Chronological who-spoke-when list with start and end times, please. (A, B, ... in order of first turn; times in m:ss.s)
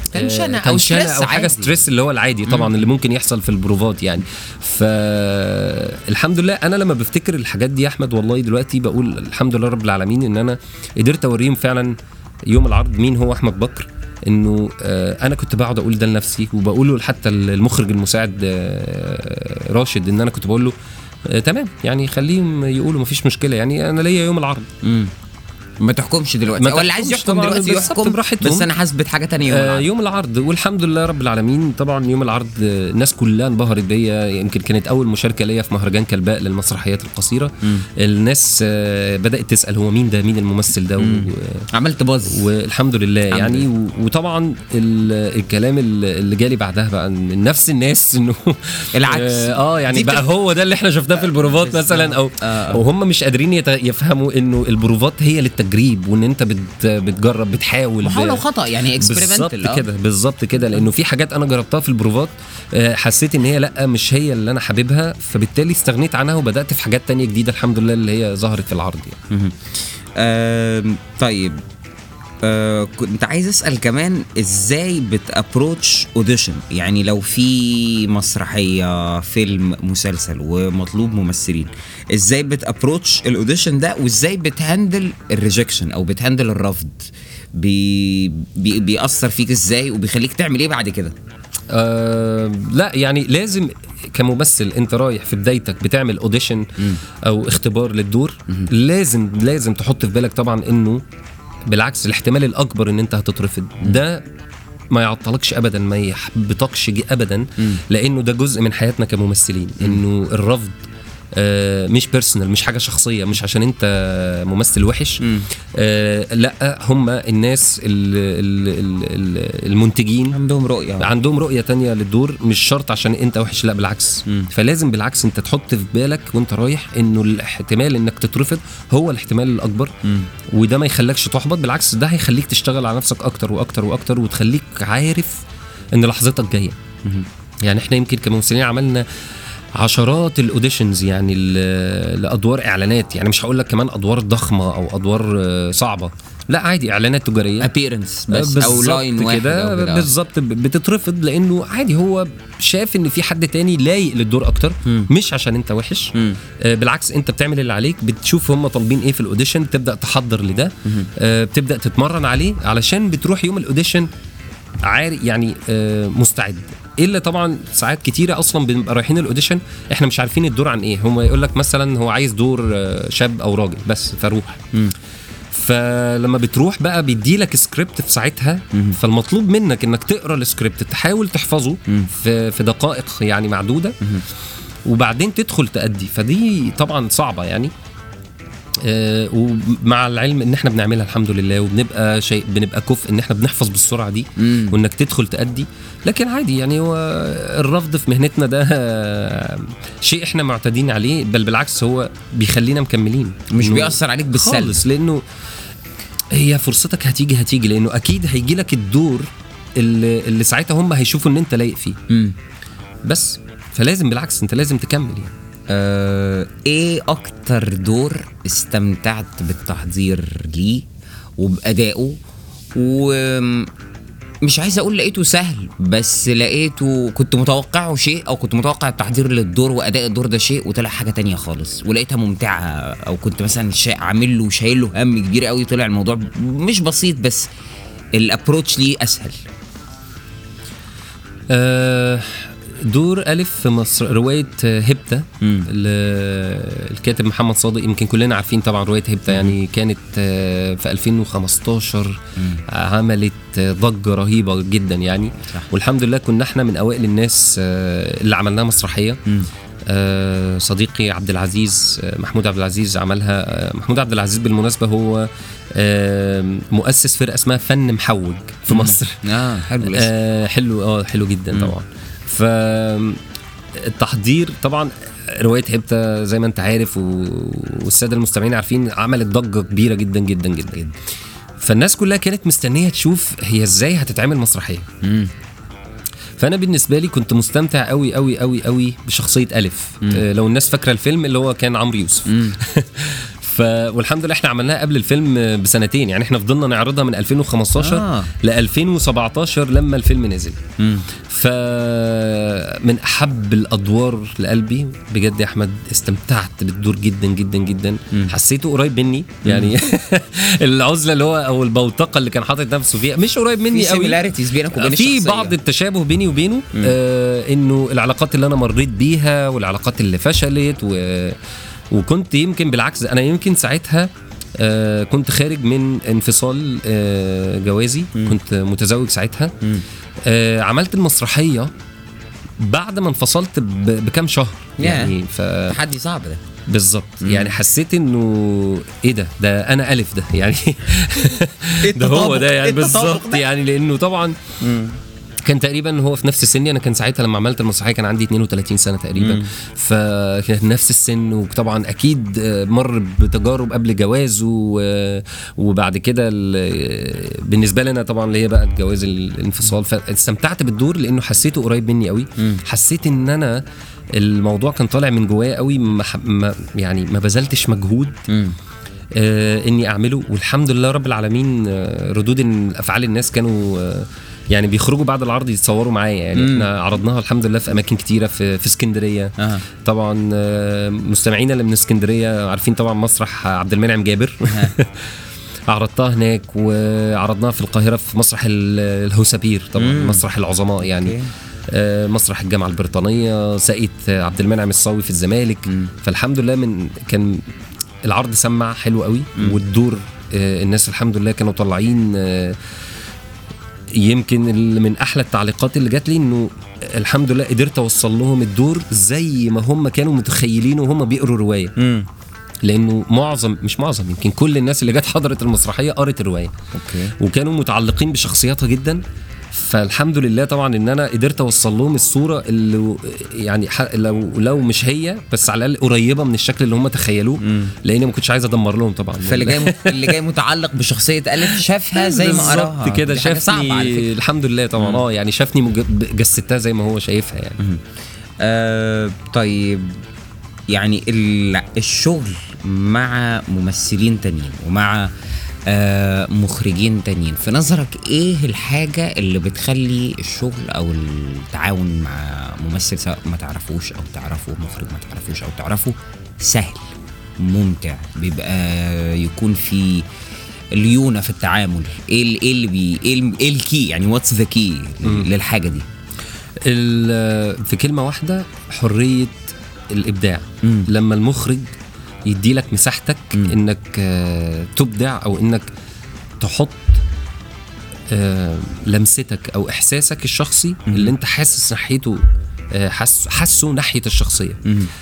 0:00.1-0:01.7 A
0:00.1-0:12.0 B
0:12.5-0:20.8 B
0:21.3-0:24.7 B
0:24.8-0:25.1 A
0:25.8-0:29.9 A
0:26.6-0:28.7 B
0:29.5-0:41.7 B
0:41.0-0:42.5 A
0:42.3-0:58.4 B
0:43.3-0:43.7 A
0:49.0-0:50.3 A
0:51.2-0:52.8 A
0:58.0-0:59.9 A
0:59.0-1:09.2 B
1:09.3-1:11.6 A
1:12.4-1:31.2 A
1:31.7-1:41.0 B
1:41.7-1:44.2 B
1:44.9-1:50.8 B
1:51.4-1:55.2 B
1:55.2-1:55.5 A
1:55.7-2:00.4 B
2:00.3-2:01.1 A
2:01.0-2:09.9 B
2:10.5-2:15.4 B
2:15.9-2:16.8 B
2:17.6-2:19.1 B
2:19.8-2:27.7 B
2:27.6-2:30.1 A
2:28.3-2:44.1 B
2:44.8-2:54.6 B
2:55.5-3:04.0 B
3:04.9-3:07.7 B
3:08.8-3:25.2 B
3:14.4-3:14.8 A
3:23.5-3:24.8 A
3:26.3-3:32.0 B
3:32.1-3:32.4 A
3:33.0-3:35.3 B
3:35.7-3:40.9 A
3:41.4-3:42.2 A
3:42.8-3:43.7 A
3:44.4-3:57.5 A
3:58.2-3:59.4 A
4:01.5-4:19.2 B
4:05.4-4:05.7 A
4:19.9-4:29.2 B
4:28.7-4:30.1 A
4:29.8-4:33.2 B
4:33.8-4:40.8 B
4:41.6-4:44.9 B
4:45.0-4:45.3 A
4:46.4-5:00.6 B
4:52.3-4:52.6 A
4:57.8-4:58.3 A
5:00.8-5:01.1 A
5:01.3-5:21.4 B
5:09.4-5:09.8 A
5:13.7-5:15.6 A
5:21.9-5:29.6 B
5:30.2-5:31.7 B
5:32.6-5:35.8 B
5:34.8-5:35.1 A
5:35.7-5:36.4 A
5:36.7-5:44.4 B
5:37.2-5:37.5 A
5:41.8-5:43.4 A
5:44.6-5:45.0 A
5:45.4-6:03.6 B
5:49.2-5:49.5 A
6:04.1-6:08.2 B
6:08.3-6:08.6 A
6:09.1-6:25.1 B
6:16.4-6:16.7 A
6:19.4-6:19.7 A
6:24.5-6:24.8 A
6:25.7-6:31.2 B
6:29.8-6:30.3 A
6:30.9-6:31.3 A
6:31.7-6:37.4 B
6:38.0-6:42.6 B
6:44.0-6:51.7 B
6:51.8-6:52.1 A
6:52.6-6:56.5 B
6:56.7-6:57.2 A
6:57.2-6:59.0 B
6:59.5-7:10.2 B
7:07.4-7:07.7 A
7:09.2-7:14.1 A
7:11.4-7:17.6 B
7:14.8-7:15.0 A
7:18.4-7:20.0 A
7:20.7-7:25.1 A
7:25.7-7:40.1 A
7:40.7-7:45.9 A
7:46.6-7:51.7 B
7:50.6-7:50.9 A
7:52.3-7:55.7 B
7:56.4-7:57.0 B
7:58.1-8:04.6 B
8:04.6-8:04.9 A